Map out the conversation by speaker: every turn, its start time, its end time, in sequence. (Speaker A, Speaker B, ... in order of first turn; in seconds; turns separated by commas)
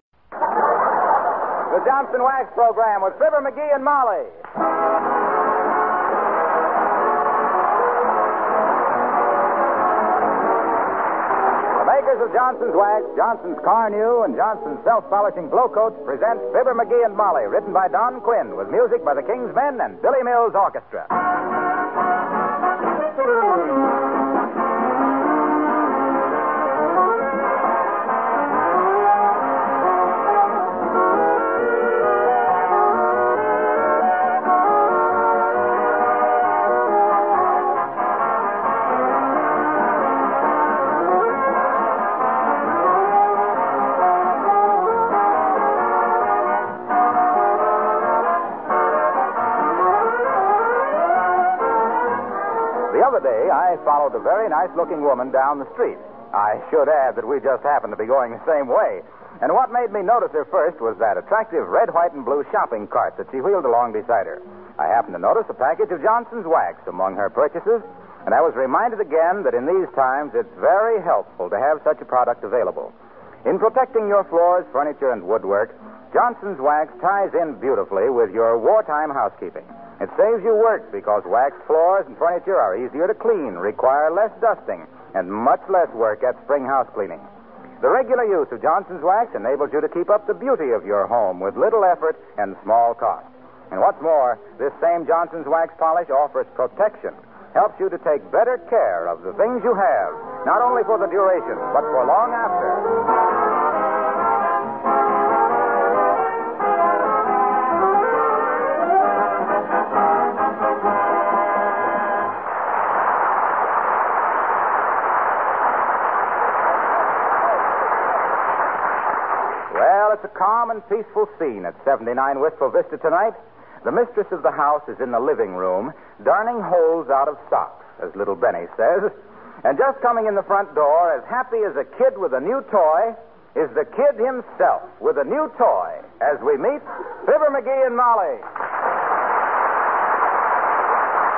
Speaker A: 1.7-4.4, Speaker A: 11.8-21.1, Speaker A: 52.9-72.9, Speaker A: 73.4-87.2, Speaker A: 87.8-102.8, Speaker A: 119.7-138.4